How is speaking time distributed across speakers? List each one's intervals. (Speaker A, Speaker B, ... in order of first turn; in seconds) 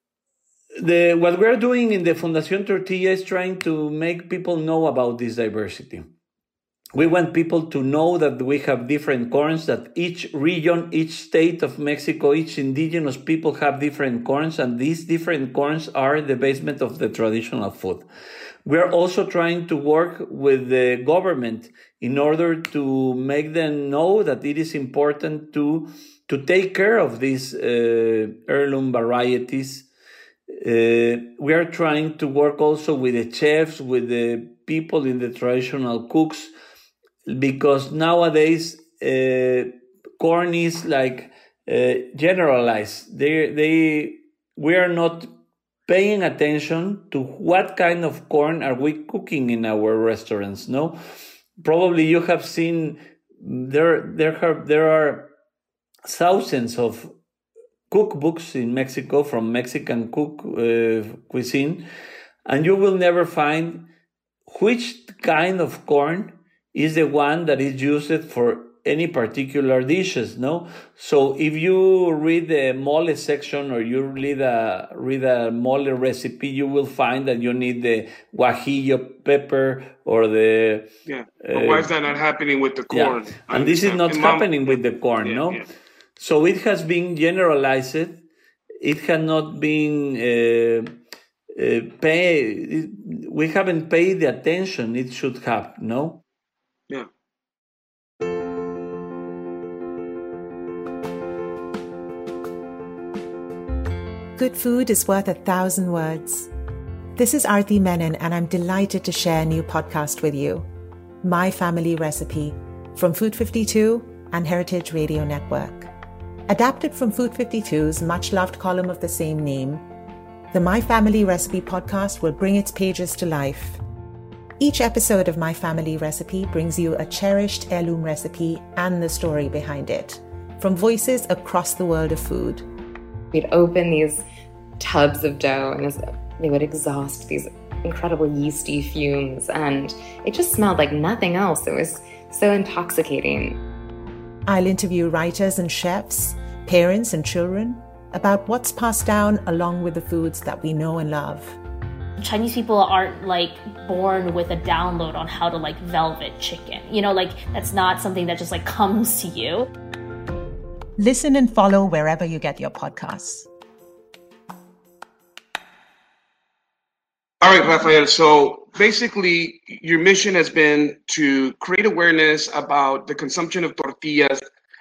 Speaker A: 0.8-6.1, 6.9-18.1, 18.6-29.9, 30.5-36.5, 37.2-45.3, 45.9-51.0, 51.6-55.3, 56.0-57.1, 57.9-61.9, 62.5-63.9, 64.5-80.9, 81.4-81.9, 82.9-85.6, 86.2-88.2, 88.8-91.0, 91.5-96.2
Speaker B: 81.1-85.7, 167.4-174.4
Speaker C: 104.4-106.5, 107.2-110.7, 111.2-115.9, 116.5-119.8, 120.5-123.8, 124.6-132.7, 144.5-151.6, 161.0-163.5
Speaker D: 133.3-134.3, 134.8-143.6
Speaker E: 152.2-159.7